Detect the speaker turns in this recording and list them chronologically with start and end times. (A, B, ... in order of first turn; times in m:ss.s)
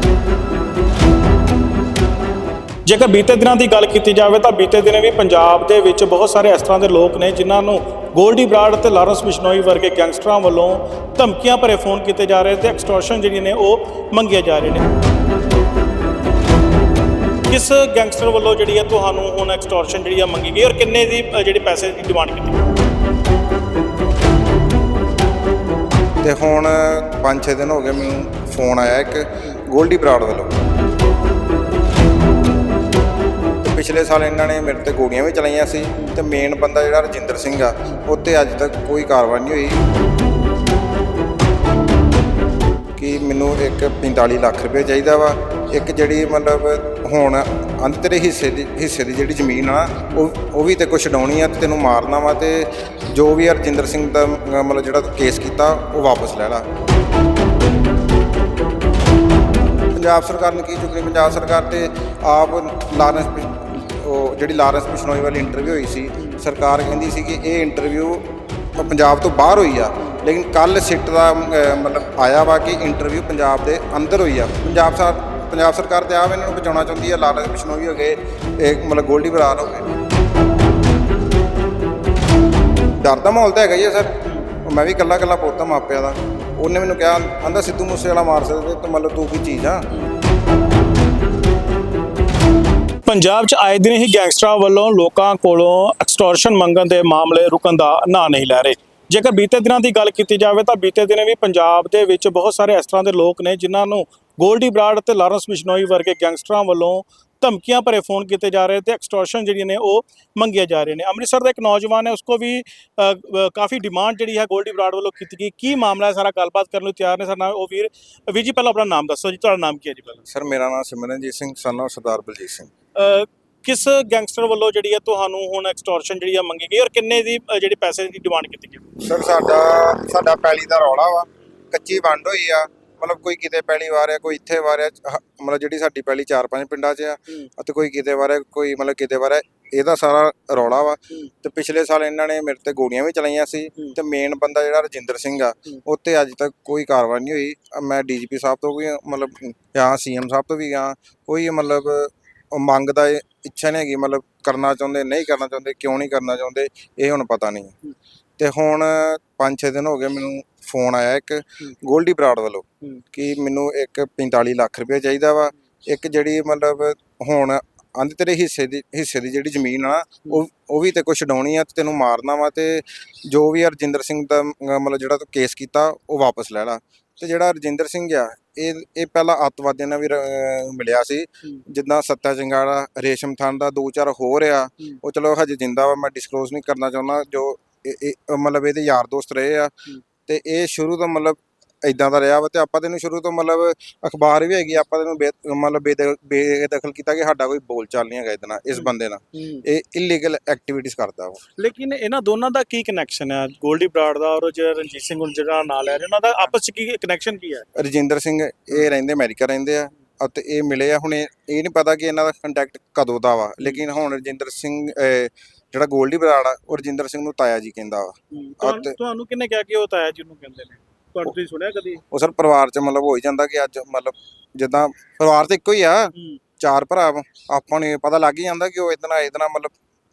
0:02.8-0:14.9 A
0:17.5-0:22.6 A
0:26.2-0:30.6 B
0:33.6-0:39.8 B
0:43.0-0:56.6 B
0:59.9-1:08.2 B
1:08.8-1:19.9 B
1:23.0-1:24.1 B
1:24.6-1:29.9 B
1:33.0-2:00.3 A
2:00.3-2:02.7 B
2:02.9-2:08.8 A
2:09.0-2:37.7 B
2:38.4-3:09.7 B
3:10.2-3:21.4 B
3:18.7-3:19.6 A
3:21.6-3:27.6 A
3:27.7-3:39.0 B
3:38.3-3:42.0 A
3:42.1-3:49.7 B
3:46.1-3:46.4 A